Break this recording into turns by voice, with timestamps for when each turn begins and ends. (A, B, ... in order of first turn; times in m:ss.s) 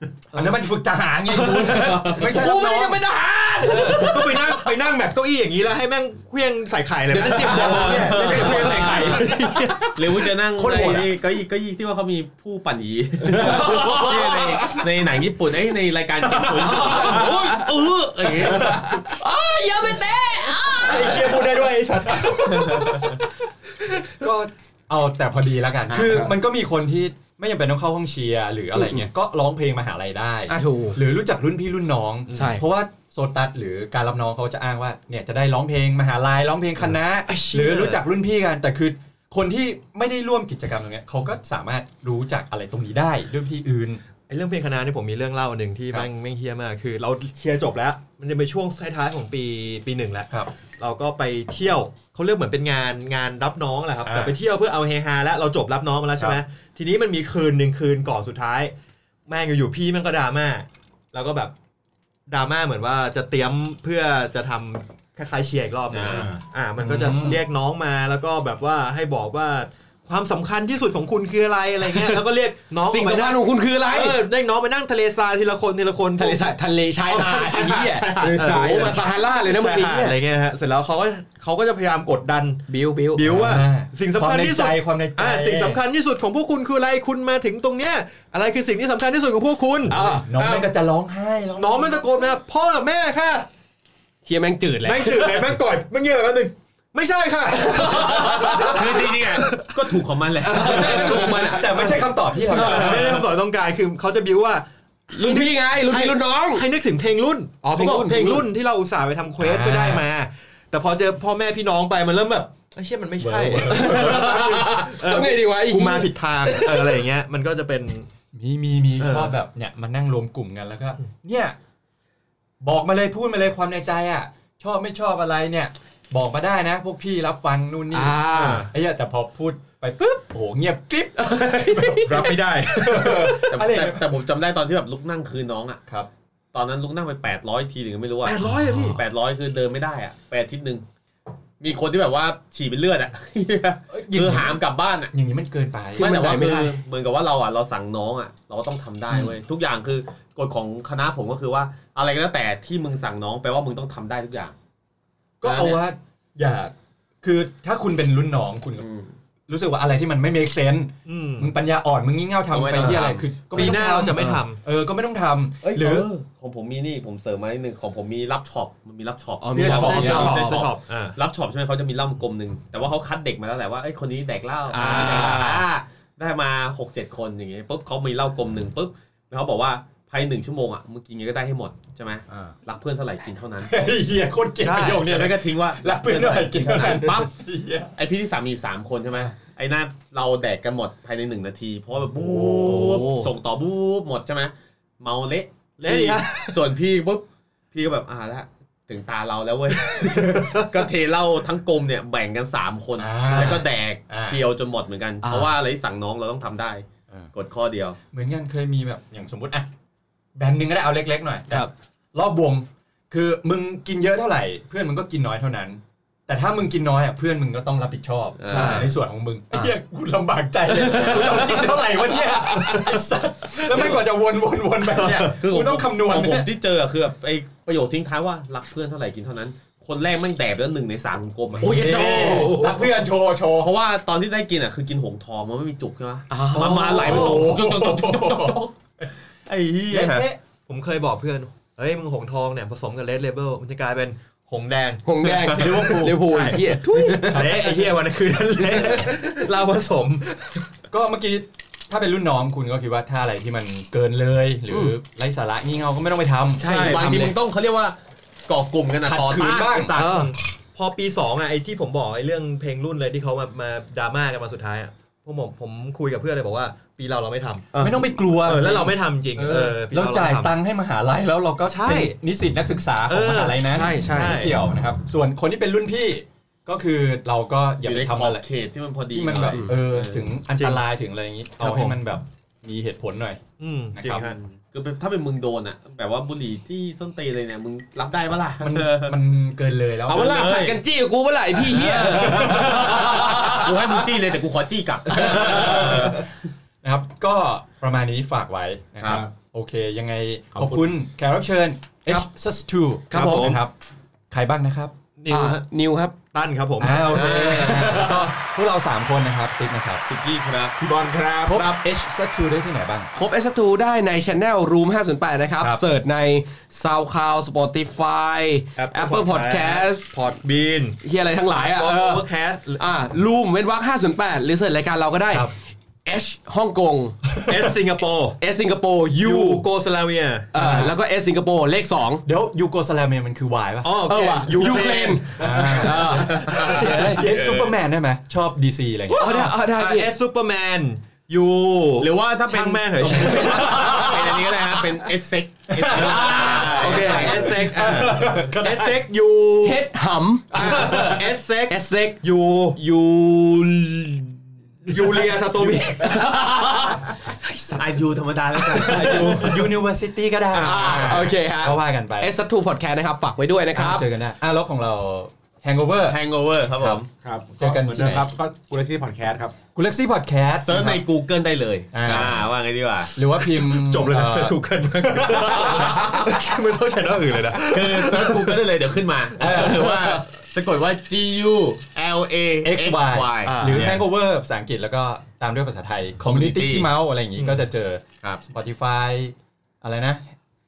0:00.3-0:03.0 A
0:00.3-0:00.6 B
0:01.3-0:02.3 C
0:01.6-0:04.6 B
0:03.6-0:04.2 A
0:03.8-0:10.2 D
0:07.1-0:09.3 B
0:07.5-0:09.2 C
0:07.5-0:08.0 E
0:08.1-0:09.8 A
0:10.0-0:19.0 C
0:10.6-0:11.1 A
0:13.3-0:14.0 E
0:13.4-0:14.4 A
0:13.4-0:14.7 B
0:16.6-0:17.7 B
0:16.7-0:17.5 A
0:18.4-0:21.6 B
0:18.5-0:19.0 E
0:20.8-0:23.1 D
0:22.6-0:23.1 C
0:23.8-0:24.3 D
0:24.2-0:44.0 A
0:25.9-0:26.3 B
0:28.7-0:29.1 B
0:30.5-0:31.0 B
0:32.3-0:32.6 D
0:32.3-0:32.7 B
0:37.3-0:38.0 D
0:44.3-0:58.7 D
0:54.0-0:54.4 A
0:59.3-1:01.5 D
1:02.3-1:16.5 D
1:05.9-1:06.3 C
1:06.1-1:06.4 E
1:06.8-1:07.4 A
1:12.9-1:14.2 B
1:16.2-1:20.2 B
1:17.1-1:30.7 D
1:18.0-1:18.9 E
1:22.7-1:23.3 B
1:23.2-1:25.8 A
1:29.9-1:32.0 A
1:29.9-1:30.2 B
1:31.6-1:33.5 D
1:34.2-1:35.6 B
1:34.8-1:40.0 D
1:37.5-1:39.1 B
1:38.0-1:38.3 A
1:38.3-1:41.4 C
1:40.4-1:43.2 B
1:40.5-1:43.2 A
1:41.6-1:58.1 D
1:45.1-1:46.7 B
1:47.7-1:48.5 B
1:49.4-1:50.1 A
1:53.2-1:54.3 A
1:53.6-1:57.0 B
1:58.3-2:01.6 A
1:59.0-1:59.4 D
2:02.6-2:14.1 A
2:07.9-2:08.7 B
2:08.4-2:08.7 D
2:11.2-2:13.5 B
2:12.0-2:13.5 D
2:13.5-2:15.8 C
2:16.5-2:20.8 C
2:18.2-2:19.0 D
2:18.4-2:19.0 B
2:21.6-2:25.1 C
2:23.9-2:26.1 A
2:26.0-2:34.6 C
2:26.0-2:26.8 B
2:29.1-2:29.4 A
2:35.4-2:38.9 A
2:35.4-2:35.8 B
2:38.8-2:39.2 C
2:39.5-2:46.1 A
2:41.1-2:41.5 D
2:42.5-2:43.7 C
2:43.5-2:44.6 D
2:45.6-3:03.7 C
2:49.4-2:50.7 B
2:49.5-2:50.4 A
2:49.8-2:51.2 D
2:54.7-2:55.5 B
2:54.8-2:55.6 D
3:02.3-3:02.5 A
3:03.6-3:07.9 A
3:04.6-3:05.1 D
3:05.0-3:07.3 C
3:08.0-3:28.0 C
3:12.1-3:13.0 A
3:12.6-3:13.3 B
3:15.8-3:16.6 D
3:19.9-3:20.7 D
3:23.0-3:24.4 A
3:25.2-3:25.5 B
3:28.1-3:29.7 A
3:30.4-3:46.5 A
3:38.4-3:38.9 C
3:38.5-3:38.9 B
3:40.8-3:42.8 B
3:40.9-3:41.6 C
3:43.5-3:43.9 D
3:44.8-3:45.4 D
3:45.1-3:52.5 C
3:51.6-3:52.8 B
3:51.6-3:53.7 A
3:52.0-3:52.8 D
3:53.6-3:58.7 C
3:56.3-3:57.5 B
3:56.8-3:59.1 A
3:59.5-4:00.3 C
3:59.9-4:00.4 A
4:00.7-4:10.7 D
4:05.1-4:07.6 B
4:05.5-4:06.6 A
4:07.1-4:07.9 A
4:08.7-4:09.1 B
4:10.9-4:17.2 A
4:14.7-4:15.0 B
4:16.6-4:17.4 B
4:16.6-4:18.0 C
4:18.5-4:20.2 C
4:19.1-4:20.1 A
4:20.0-4:20.3 B
4:20.0-4:27.7 D
4:27.7-4:28.2 B
4:27.8-4:38.4 A
4:28.4-4:30.5 D
4:31.7-4:32.2 D
4:33.1-4:34.6 D
4:33.7-4:34.5 B
4:37.8-4:40.3 C
4:39.1-4:43.4 A
4:39.4-4:39.8 B
4:41.6-4:42.0 D
4:43.6-4:44.4 D
4:43.9-4:44.3 A
4:44.2-4:49.2 C
4:48.6-4:50.7 A
4:50.1-4:50.8 C
4:50.1-4:54.0 B
4:51.9-4:56.3 C
4:52.1-4:53.5 A
4:55.1-4:56.1 B
4:55.1-4:56.2 A
4:56.8-5:03.7 A
4:59.0-4:59.2 C
5:00.6-5:01.0 E
5:03.1-5:03.6 B
5:03.2-5:03.6 D
5:04.3-5:04.9 A
5:05.2-5:05.7 D
5:05.3-5:06.2 B
5:06.3-5:07.6 D
5:06.8-5:10.0 A
5:07.0-5:08.2 C
5:10.0-5:10.8 C
5:10.8-5:11.7 E
5:11.5-5:13.1 A
5:13.2-5:20.0 B
5:15.6-5:15.8 A
5:18.8-5:21.0 D
5:21.0-5:22.3 B
5:21.5-5:22.9 D
5:22.8-5:25.5 B
5:26.0-5:27.2 B
5:27.4-5:28.4 D
5:28.4-5:29.6 B
5:29.1-5:30.9 D
5:30.5-5:32.2 B
5:30.6-5:30.9 A
5:32.3-5:34.1 A
5:33.8-5:37.2 D
5:34.1-5:37.3 B
5:35.4-5:39.5 A
5:36.0-5:37.8 C
5:39.1-5:40.1 B
5:39.2-5:44.1 D
5:42.0-5:47.6 C
5:43.2-5:44.4 A
5:43.6-5:44.0 B
5:45.7-5:49.0 A
5:45.9-5:49.8 D
5:46.0-5:47.5 B
5:49.6-5:51.1 B
5:50.5-5:51.3 A
5:50.5-5:52.8 D
5:51.7-5:52.2 B
5:52.8-5:55.3 B
5:54.9-5:56.3 D
5:55.9-5:58.0 B
5:57.8-5:59.5 C
5:58.6-5:59.7 B
5:59.0-6:02.3 A
6:00.6-6:01.2 D
6:00.6-6:04.1 B
6:03.7-6:06.2 A
6:06.1-6:07.1 C
6:07.2-6:09.6 E
6:07.6-6:08.3 A
6:09.7-6:11.0 A
6:10.6-6:13.1 C
6:11.9-6:12.4 A
6:13.2-6:14.6 A
6:13.4-6:18.7 D
6:15.3-6:16.4 C
6:17.7-6:24.0 C
6:19.4-6:20.3 A
6:22.6-6:30.3 A
6:23.4-6:24.0 D
6:26.2-6:26.9 C
6:27.4-6:27.7 D